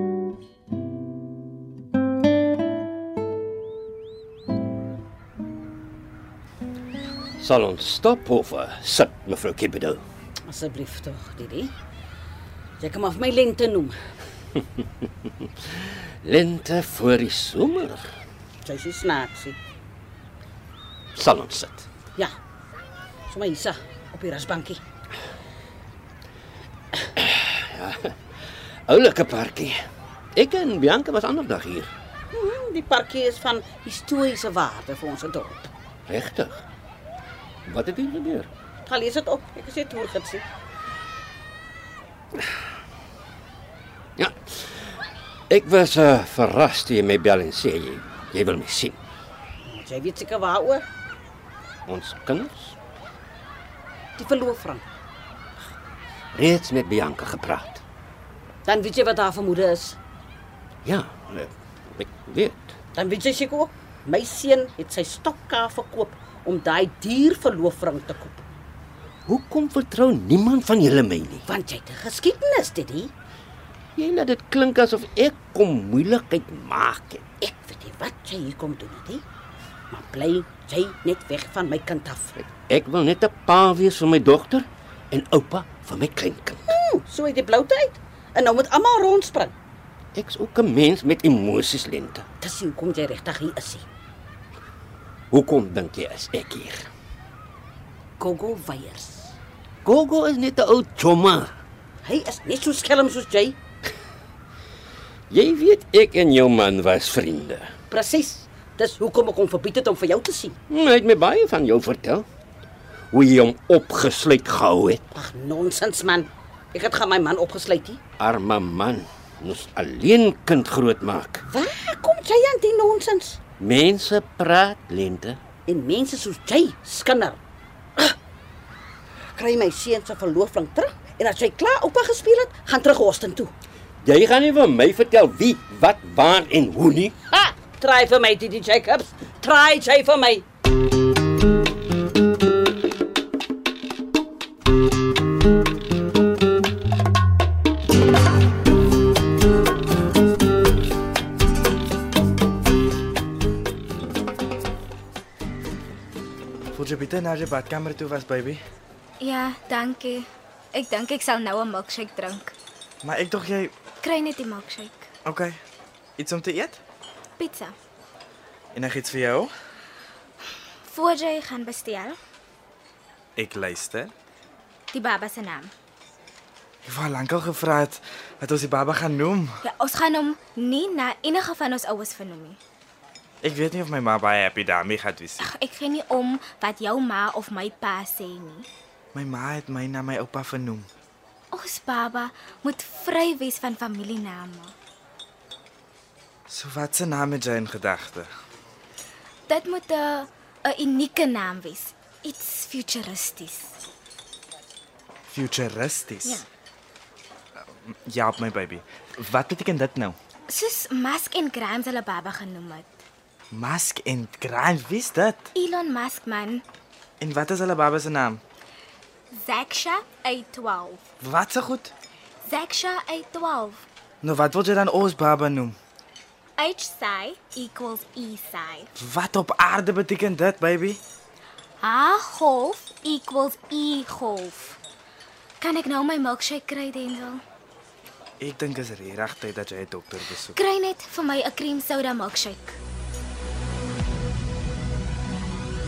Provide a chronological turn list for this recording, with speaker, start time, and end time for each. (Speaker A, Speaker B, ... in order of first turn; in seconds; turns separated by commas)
Speaker A: 7.4-10.0, Speaker B: 10.4-11.7, Speaker B: 12.8-13.9, Speaker A: 15.7-18.1, Speaker B: 18.6-19.6, Speaker A: 21.1-21.9, Speaker B: 23.3-24.8, Speaker A: 27.1-28.2, Speaker A: 28.9-29.8, Speaker A: 30.3-31.9, Speaker B: 32.3-35.7, Speaker A: 36.1-36.6, Speaker A: 37.6-38.5, Speaker B: 38.8-40.4, Speaker A: 44.2-44.7, Speaker A: 45.5-49.0, Speaker B: 49.6-50.8, Speaker A: 51.9-52.8, Speaker B: 54.2-54.8, Speaker A: 56.3-57.8, Speaker B: 58.6-60.0, Speaker A: 60.8-62.7, Speaker B: 62.9-68.4, Speaker A: 69.3-71.4, Speaker B: 71.5-73.1, Speaker A: 74.0-77.2, Speaker B: 77.4-79.2, Speaker B: 79.9-82.4, Speaker A: 82.4-86.8, Speaker B: 86.7-89.5, Speaker A: 90.1-92.2, Speaker B: 92.4-93.8, Speaker A: 95.3-96.9, Speaker B: 98.2-99.3, Speaker A: 99.8-101.5, Speaker B: 102.0-103.6, Speaker A: 105.3-107.7, Speaker B: 107.9-110.6, Speaker A: 110.7-112.2, Speaker A: 113.1-115.0, Speaker B: 115.1-118.0, Speaker A: 118.2-121.4, Speaker B: 121.5-123.4, Speaker A: 123.6-125.4, Speaker B: 125.7-127.4, Speaker B: 129.3-133.5, Speaker A: 134.0-137.2, Speaker B: 137.5-140.4, Speaker C: 156.7-158.6, Speaker D: 159.2-162.5, Speaker C: 163.0-163.7, Speaker D: 164.0-165.1, Speaker C: 165.2-165.5, Speaker C: 166.2-166.8, Speaker D: 167.4-167.8, Speaker C: 168.7-169.5, Speaker D: 170.8-172.2, Speaker C: 173.4-174.1, Speaker D: 174.9-175.7, Speaker C: 176.8-179.5, Speaker D: 179.6-182.6, Speaker C: 183.4-185.4, Speaker D: 185.4-188.7, Speaker C: 189.1-190.9, Speaker D: 191.5-194.7, Speaker C: 196.5-198.3, Speaker D: 199.5-203.7, Speaker C: 205.3-206.4, Speaker C: 208.1-210.2, Speaker D: 210.5-213.0, Speaker C: 213.5-215.5, Speaker D: 215.5-216.6, Speaker C: 217.2-218.4, Speaker D: 219.3-221.0, Speaker C: 221.2-221.9, Speaker D: 222.4-223.8, Speaker C: 224.2-225.8, Speaker D: 226.6-228.9, Speaker C: 229.0-231.0, Speaker D: 231.8-234.8, Speaker D: 235.6-237.4, Speaker C: 238.4-240.6, Speaker D: 240.5-242.8